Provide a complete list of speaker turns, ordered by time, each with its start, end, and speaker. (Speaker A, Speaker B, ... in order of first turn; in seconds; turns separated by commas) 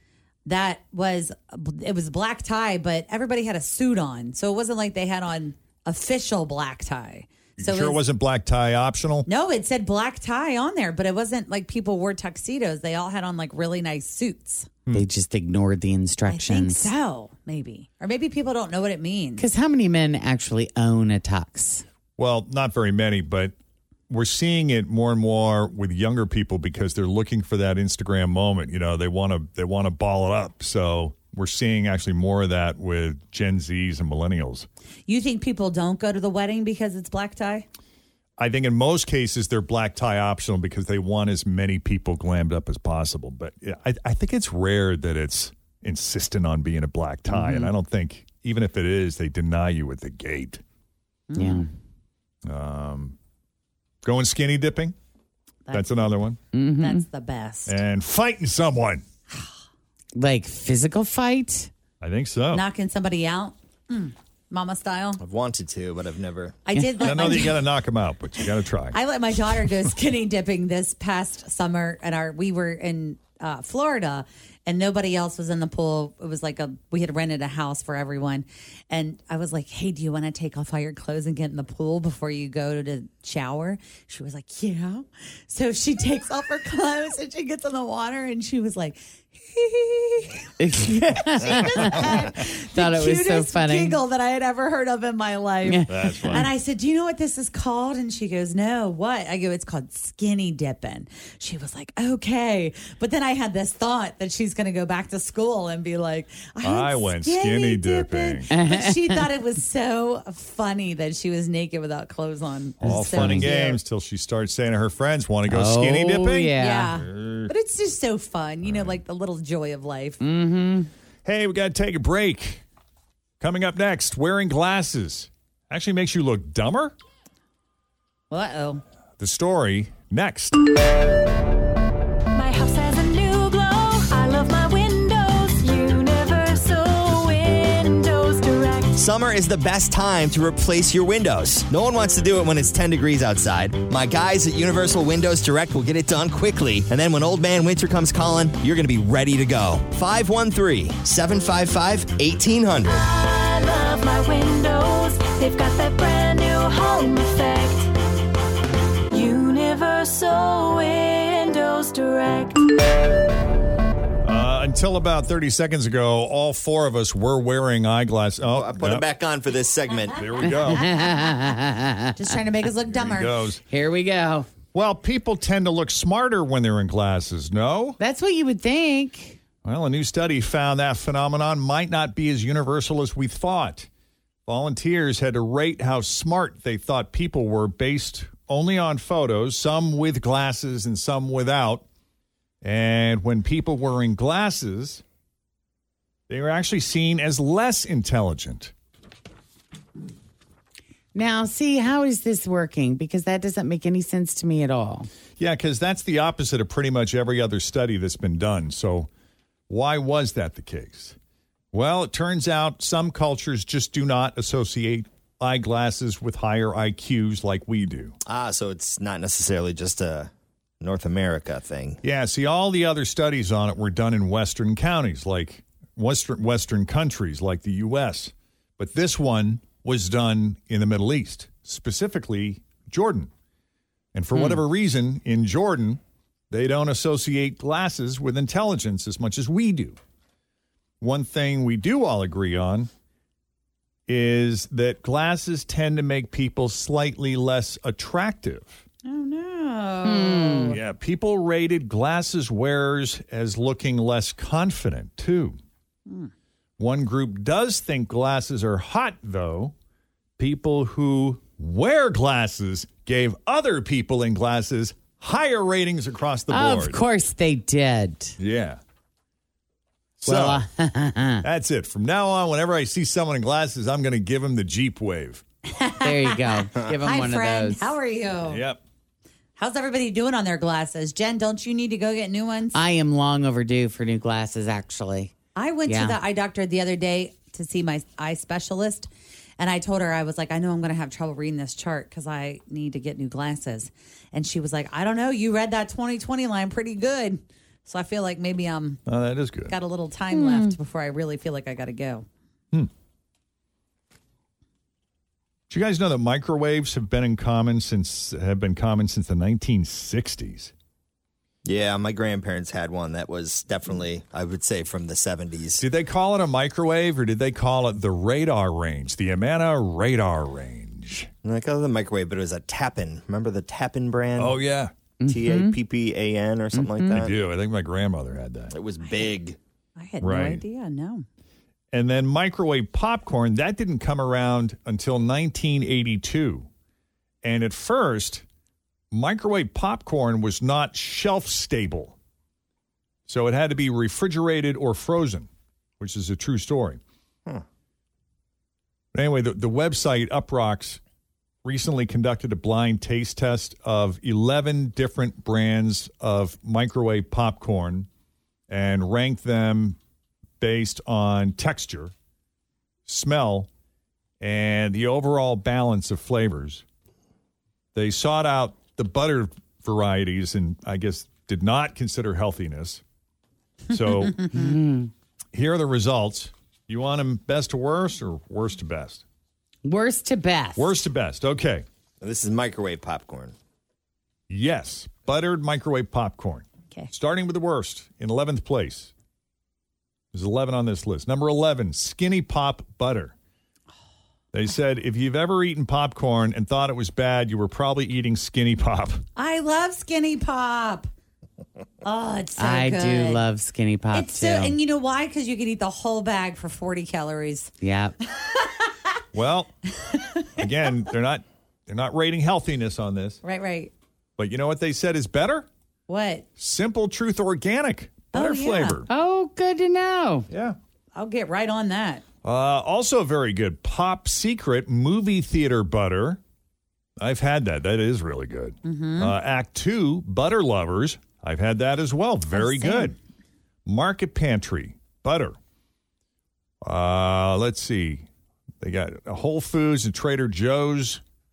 Speaker A: 0.5-8.0, Speaker B: 7.6-9.2, Speaker A: 9.2-14.7, Speaker C: 14.9-16.9, Speaker A: 16.3-19.4, Speaker C: 19.4-21.9, Speaker B: 22.2-23.5, Speaker B: 24.1-34.7, Speaker A: 35.1-37.6, Speaker B: 38.4-50.6, Speaker C: 47.3-47.7, Speaker A: 51.3-51.6, Speaker C: 51.4-51.7, Speaker B: 52.5-53.2, Speaker B: 54.0-55.0, Speaker B: 55.7-56.4, Speaker C: 56.5-57.0, Speaker A: 56.8-57.8, Speaker B: 57.7-59.0, Speaker C: 60.1-61.7, Speaker B: 62.0-62.6, Speaker A: 62.5-65.2, Speaker D: 65.2-66.6, Speaker A: 66.7-67.6, Speaker B: 67.0-69.0, Speaker A: 68.9-113.8, Speaker C: 90.6-94.0, Speaker C: 95.6-96.4, Speaker B: 95.9-96.5, Speaker B: 106.6-108.5, Speaker C: 108.5-109.2, Speaker B: 112.8-117.5, Speaker C: 112.8-113.5, Speaker C: 115.5-116.9, Speaker A: 116.6-120.2, Speaker B: 118.6-119.0, Speaker C: 120.2-120.9, Speaker B: 121.2-122.6, Speaker B: 123.4-127.0, Speaker A: 128.3-128.8, Speaker B: 129.2-130.6, Speaker E: 132.3-139.0, Speaker D: 138.9-153.1, Speaker E: 152.9-157.9, Speaker E: 159.1-162.6, Speaker B: 164.2-169.1, Speaker D: 168.5-170.2, Speaker B: 170.1-170.9, Speaker C: 170.7-172.1, Speaker A: 172.2-173.4, Speaker B: 172.9-173.6, Speaker C: 173.7-174.5, Speaker B: 174.7-178.0, Speaker C: 178.0-179.4, Speaker B: 179.6-183.9, Speaker B: 184.5-191.8, Speaker B: 192.6-195.0, Speaker B: 196.3-198.7, Speaker C: 201.1-205.1, Speaker B: 205.4-209.1, Speaker B: 209.7-211.2, Speaker B: 211.7-218.2, Speaker D: 218.2-222.0, Speaker B: 222.0-233.3, Speaker B: 234.1-240.0, Speaker C: 234.3-234.6, Speaker B: 241.0-242.9, Speaker B: 244.1-248.8, Speaker A: 249.0-250.8, Speaker C: 250.0-250.8, Speaker B: 250.7-255.6, Speaker B: 256.8-259.8, Speaker B: 260.4-267.0, Speaker C: 266.5-268.4, Speaker B: 268.4-268.8, Speaker B: 270.2-270.6, Speaker C: 270.2-271.4, Speaker B: 271.4-275.4, Speaker A: 275.7-278.6, Speaker C: 276.0-277.9, Speaker B: 278.4-278.8, Speaker A: 279.6-282.8, Speaker C: 282.7-285.3, Speaker A: 285.5-299.0, Speaker C: 285.9-286.2, Speaker B: 299.1-299.7, Speaker A: 299.7-302.2, Speaker C: 300.3-300.8, Speaker B: 305.7-310.7, Speaker D: 311.6-315.8, Speaker B: 315.8-321.3, Speaker D: 321.4-324.6, Speaker B: 324.4-324.9, Speaker C: 325.2-325.8, Speaker D: 325.3-327.4, Speaker C: 326.7-327.2, Speaker B: 327.1-328.7, Speaker D: 328.7-329.6, Speaker A: 330.0-331.2, Speaker B: 330.2-330.6, Speaker B: 331.9-336.7, Speaker B: 337.4-338.4, Speaker B: 339.1-342.2, Speaker B: 343.3-347.0, Speaker B: 349.1-351.0, Speaker B: 351.6-358.1, Speaker B: 358.7-360.0, Speaker B: 360.6-362.1, Speaker B: 363.1-363.7, Speaker B: 364.4-366.8, Speaker B: 367.9-373.0, Speaker B: 373.9-374.5, Speaker C: 374.5-375.1, Speaker B: 375.5-379.2, Speaker C: 379.8-380.9, Speaker B: 380.8-381.9, Speaker D: 382.2-383.5, Speaker B: 384.5-389.1, Speaker B: 390.3-393.3, Speaker B: 394.5-399.2, Speaker A: 399.4-401.1, Speaker A: 402.0-403.4, Speaker C: 402.6-404.8, Speaker A: 404.1-407.7, Speaker C: 407.8-408.1, Speaker A: 408.2-409.0, Speaker B: 409.3-409.7, Speaker A: 410.0-410.6, Speaker B: 410.6-413.4, Speaker A: 413.4-413.9, Speaker B: 414.4-415.7, Speaker A: 416.1-416.5, Speaker B: 416.6-419.1, Speaker A: 418.3-419.0, Speaker C: 419.1-420.5, Speaker B: 420.5-420.8, Speaker A: 421.1-422.2, Speaker B: 422.4-426.4, Speaker B: 427.2-433.2, Speaker A: 428.8-429.3, Speaker A: 432.5-433.1, Speaker B: 433.8-435.6, Speaker B: 436.8-438.3, Speaker B: 438.8-441.2